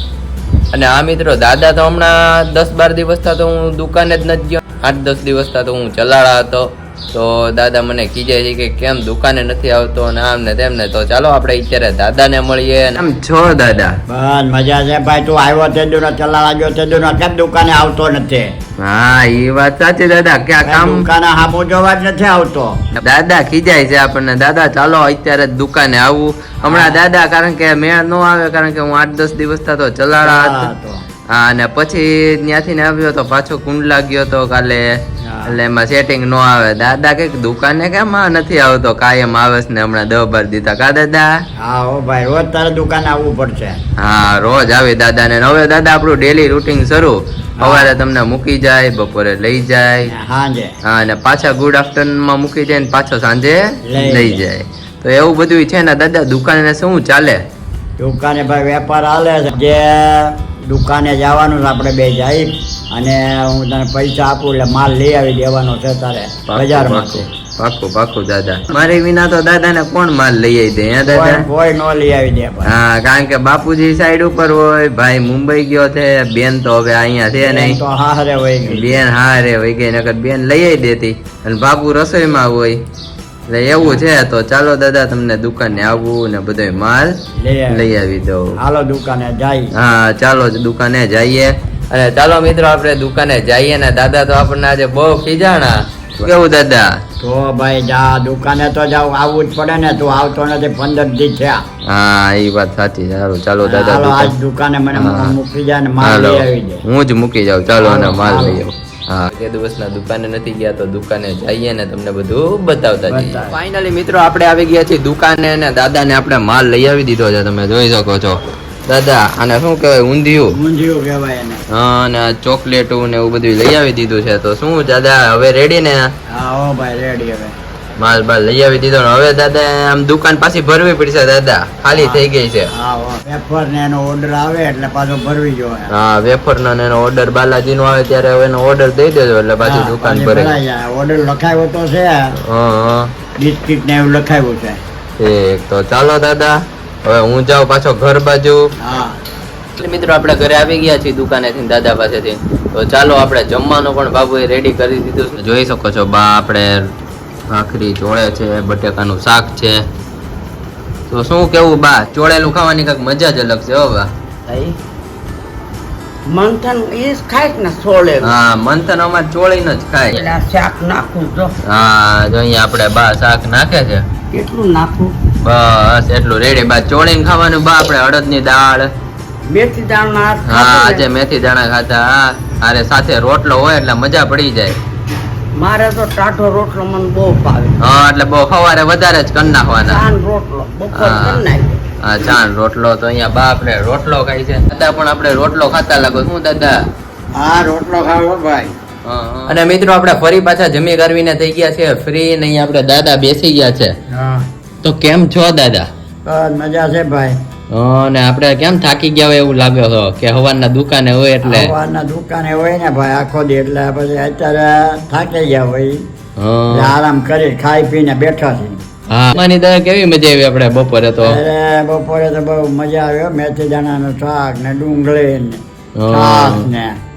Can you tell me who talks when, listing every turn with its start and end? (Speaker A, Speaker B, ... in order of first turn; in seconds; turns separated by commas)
Speaker A: 0.7-13.9, Speaker B: 14.1-18.5, Speaker A: 18.8-21.1, Speaker B: 20.6-22.8, Speaker A: 23.0-30.7, Speaker B: 26.6-27.0, Speaker B: 30.2-31.0, Speaker A: 31.3-41.3, Speaker B: 35.2-35.6, Speaker B: 41.6-43.8, Speaker A: 44.0-50.1, Speaker B: 47.6-47.9, Speaker B: 50.1-50.8, Speaker A: 50.8-57.4, Speaker B: 53.8-54.4, Speaker B: 58.0-67.3, Speaker A: 66.5-71.5, Speaker B: 71.1-72.7, Speaker A: 72.6-77.8, Speaker B: 77.4-78.9, Speaker A: 78.7-82.8, Speaker A: 83.5-87.1, Speaker B: 83.8-84.0, Speaker B: 87.4-87.8, Speaker A: 87.7-88.6, Speaker B: 88.6-89.7, Speaker A: 89.7-96.9, Speaker B: 97.2-101.6, Speaker A: 101.9-104.3, Speaker B: 103.6-106.8, Speaker A: 104.9-105.3, Speaker A: 106.0-120.6, Speaker B: 107.8-108.6, Speaker B: 113.1-113.5, Speaker B: 120.5-121.6, Speaker A: 121.7-126.1, Speaker B: 126.3-127.5, Speaker A: 128.0-132.7, Speaker B: 131.9-135.9, Speaker A: 135.9-140.6, Speaker B: 139.6-142.3, Speaker A: 142.4-143.1, Speaker B: 143.4-144.8, Speaker A: 145.2-148.6, Speaker B: 148.8-149.2, Speaker A: 149.8-156.9, Speaker A: 157.5-159.8, Speaker A: 161.1-164.1, Speaker C: 164.5-164.8, Speaker C: 166.2-168.3, Speaker A: 168.2-170.3, Speaker C: 170.1-171.5, Speaker A: 171.6-174.0, Speaker C: 174.3-175.1, Speaker A: 175.4-178.9, Speaker C: 179.4-181.0, Speaker A: 180.4-184.8, Speaker C: 185.6-187.8, Speaker A: 187.8-190.0, Speaker C: 189.6-191.8, Speaker A: 190.9-191.4, Speaker A: 192.0-196.8, Speaker B: 197.3-198.7, Speaker A: 199.1-203.9, Speaker B: 204.1-204.4, Speaker A: 204.8-205.9, Speaker B: 206.2-207.3, Speaker A: 207.7-211.7, Speaker B: 211.4-216.0, Speaker A: 216.4-216.9, Speaker B: 216.7-218.8, Speaker A: 219.1-221.4, Speaker B: 221.2-226.9, Speaker A: 226.0-226.7